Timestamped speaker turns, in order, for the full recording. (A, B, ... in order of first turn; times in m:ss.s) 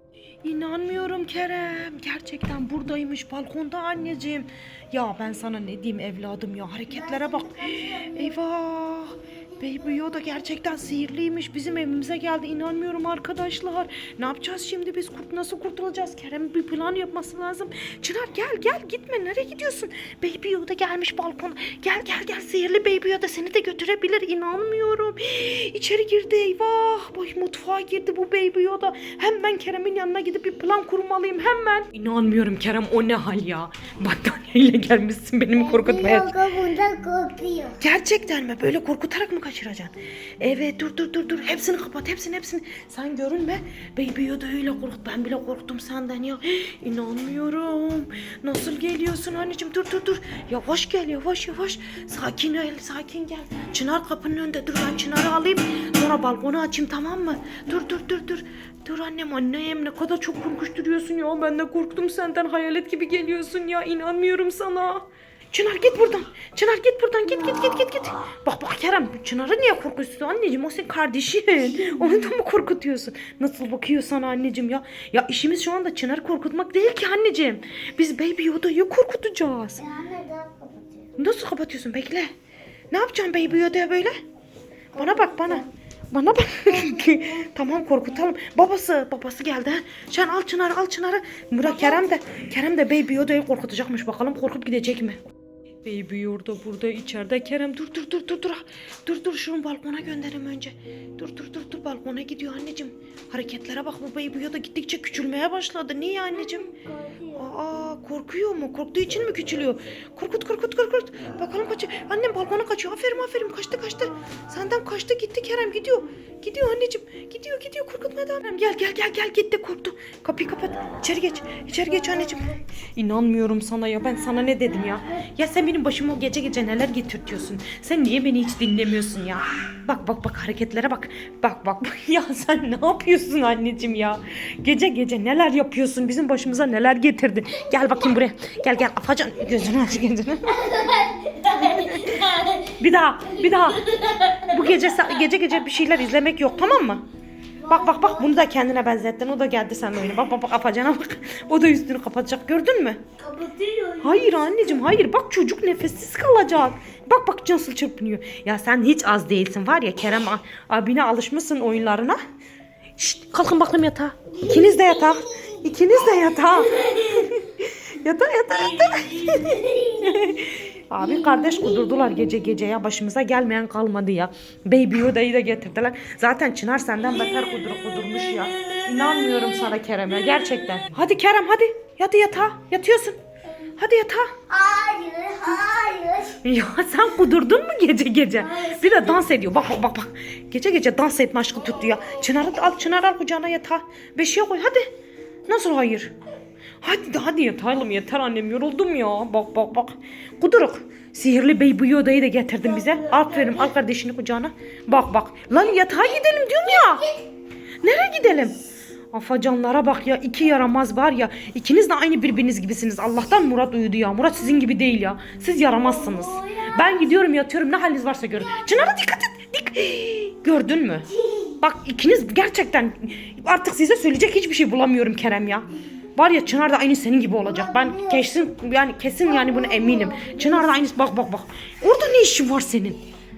0:00.4-0:36.3 A
0:06.9-0:08.4 B
0:09.6-0:10.0 B
0:35.5-0:37.8 B
0:37.8-1:19.8 A
1:11.7-1:12.3 B
1:19.8-1:21.1 B
1:21.2-1:22.3 A
1:22.9-1:24.2 A
1:24.9-1:25.7 B
1:25.0-1:35.2 A
1:35.8-1:46.7 A
1:46.3-1:47.5 B
1:47.4-2:20.8 A
2:20.5-2:22.6 B
2:21.4-2:27.0 A
2:23.8-2:24.5 B
2:27.6-2:28.4 B
2:27.7-2:33.0 A
2:33.2-2:34.7 B
2:34.0-2:42.2 A
2:43.0-3:03.2 A
2:49.4-2:50.2 B
2:51.0-2:52.1 B
2:58.8-2:59.7 B
3:03.8-3:04.3 A
3:04.5-3:06.4 B
3:06.4-3:14.9 A
3:08.4-3:09.3 B
3:15.5-3:16.1 A
3:16.8-3:27.0 A
3:22.6-3:23.7 B
3:25.6-3:27.3 B
3:27.8-3:28.6 A
3:29.1-3:41.1 A
3:35.7-3:37.1 B
3:38.4-3:38.8 B
3:41.2-3:41.5 B
3:41.6-3:53.0 A
3:47.4-3:48.4 B
3:49.2-3:50.8 B